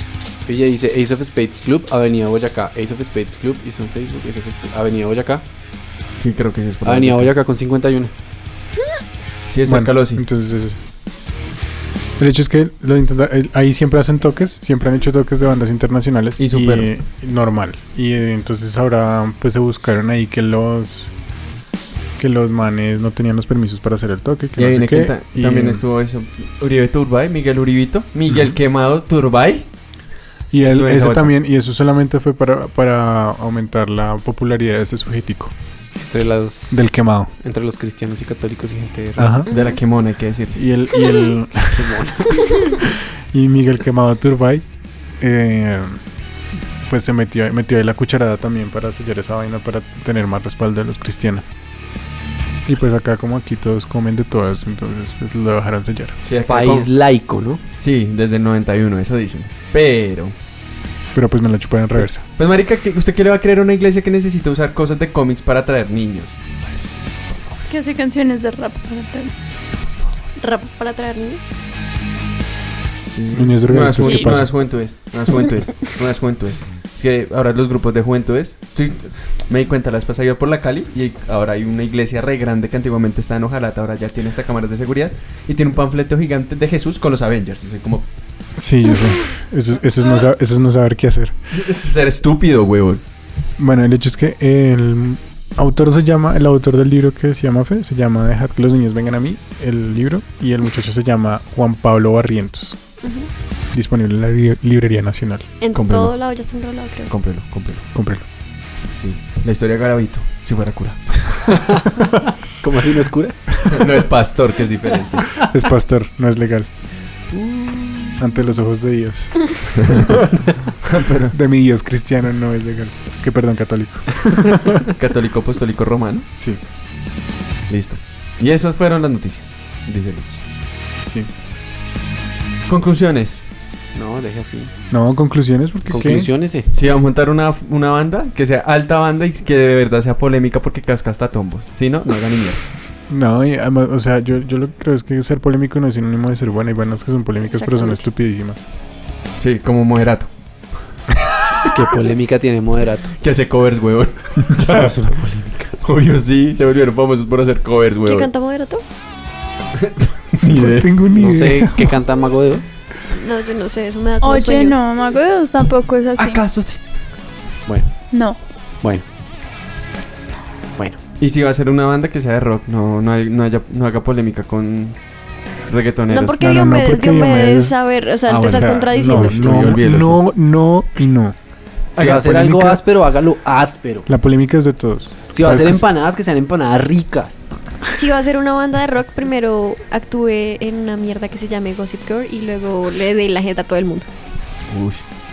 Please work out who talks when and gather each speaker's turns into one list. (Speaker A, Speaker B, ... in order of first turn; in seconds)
Speaker A: 0.5-5.4, 6.8-8.1, 36.0-36.8, 37.4-39.4, 41.7-42.7, 56.5-57.6, 111.5-112.1, 112.6-113.6, 117.3-118.1, 133.9-134.7, 135.9-136.7, 151.7-153.1, 154.6-155.7, 161.2-162.7, 167.7-167.9, 181.9-184.1, 185.3-187.4
Speaker B: 6.2-7.3, 9.5-10.2, 16.4-16.9, 24.6-29.7, 30.6-31.3, 39.5-40.6, 56.2-56.9, 57.8-60.3, 62.0-66.4, 73.0-88.1, 91.5-93.0, 105.7-106.1, 107.1-107.8, 108.9-111.2, 113.7-115.3, 119.8-120.1, 120.8-121.3, 124.9-126.3, 127.7-130.4, 132.7-133.4, 136.7-142.6, 149.4-150.3, 153.2-155.2, 155.8-158.3, 159.8-161.0, 166.2-166.8, 171.2-175.0, 175.7-176.4, 178.3-180.2, 194.7-195.0
Speaker C: 9.6-10.8, 12.2-21.1, 22.2-25.8, 28.3-28.5, 30.5-35.5, 36.7-37.3, 39.2-39.5, 40.5-42.0, 42.8-44.6, 45.2-46.0, 46.8-51.5, 52.6-56.1, 61.1-62.2, 73.3-74.5, 88.6-91.3, 93.6-102.8, 103.7-105.5, 107.9-108.2, 115.4-116.7, 118.2-120.1, 121.3-124.8, 134.9-136.3, 143.1-148.6, 160.4-162.0, 176.4-181.3, 182.0-182.8, 184.1-185.8
Speaker D: 39.5-39.8, 70.4-71.4, 103.0-103.3, 105.6-107.1, 147.5-148.0, 158.1-158.8, 163.1-164.8, 176.1-179.7, 187.9-194.1
Speaker E: 67.7-69.3, 164.2-166.4, 168.1-168.4